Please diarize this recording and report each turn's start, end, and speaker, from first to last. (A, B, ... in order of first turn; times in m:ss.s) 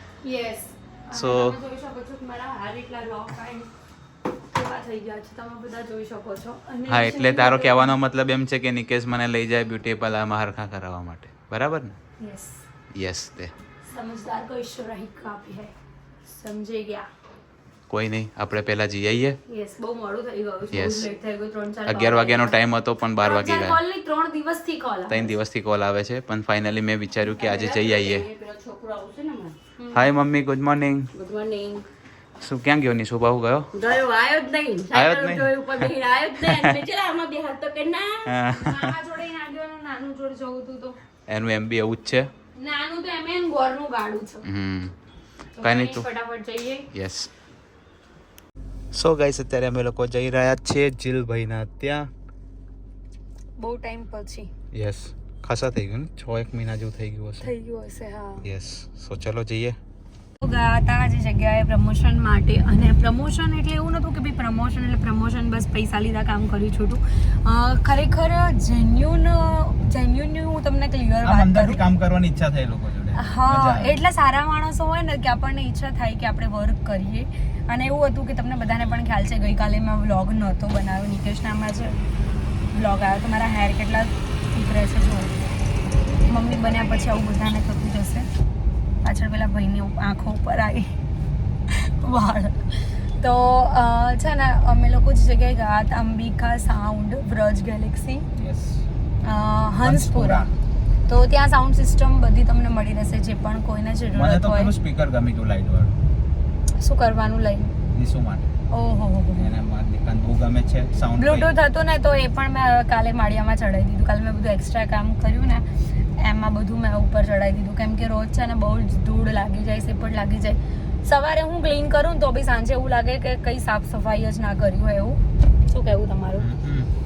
0:00.2-0:03.7 A
0:01.1-0:01.6 B
0:04.5-0:08.0 A
0:06.9-0:12.0 B
0:12.2-0:12.6 A
0:12.9-0:13.5 B
0:13.9-0:15.7 A
0:16.3-0:17.1 A
0:17.9-0:19.4 B
0:19.5-0:22.6 A
0:20.7-0:21.1 B
0:21.9-0:23.8 B
0:23.1-0:25.3 A
0:25.1-0:28.2 B
0:27.2-0:30.0 A
0:29.9-0:31.1 B
0:31.1-0:31.8 A
0:32.4-0:33.7 B
0:33.7-0:41.0 A
0:34.9-0:35.9 B
0:36.4-0:36.7 B
0:38.2-0:39.0 B
0:41.3-0:42.3 B
0:42.6-0:44.4 A
0:44.4-0:44.9 B
0:45.6-0:46.8 A
0:45.6-0:46.1 B
0:46.9-0:47.3 B
0:48.9-0:52.1 B
0:53.6-0:54.5 A
0:54.7-0:57.5 B
0:57.4-0:58.4 A
0:58.4-0:59.8 B
1:00.4-1:11.8 A
1:11.2-1:14.0 B
1:13.2-1:22.0 A
1:22.7-1:25.3 A
1:26.3-1:28.3 A
1:29.0-1:30.9 A
1:31.7-1:38.2 A
1:38.4-1:38.8 B
1:39.2-1:40.5 A
1:39.8-1:40.5 B
1:41.1-1:44.7 A
1:44.1-1:45.9 B
1:46.8-1:47.7 A
1:47.9-1:48.5 B
1:48.7-1:49.5 A
1:49.3-1:51.5 B
1:51.2-1:55.6 A
1:56.2-2:06.4 A
2:06.4-2:06.9 B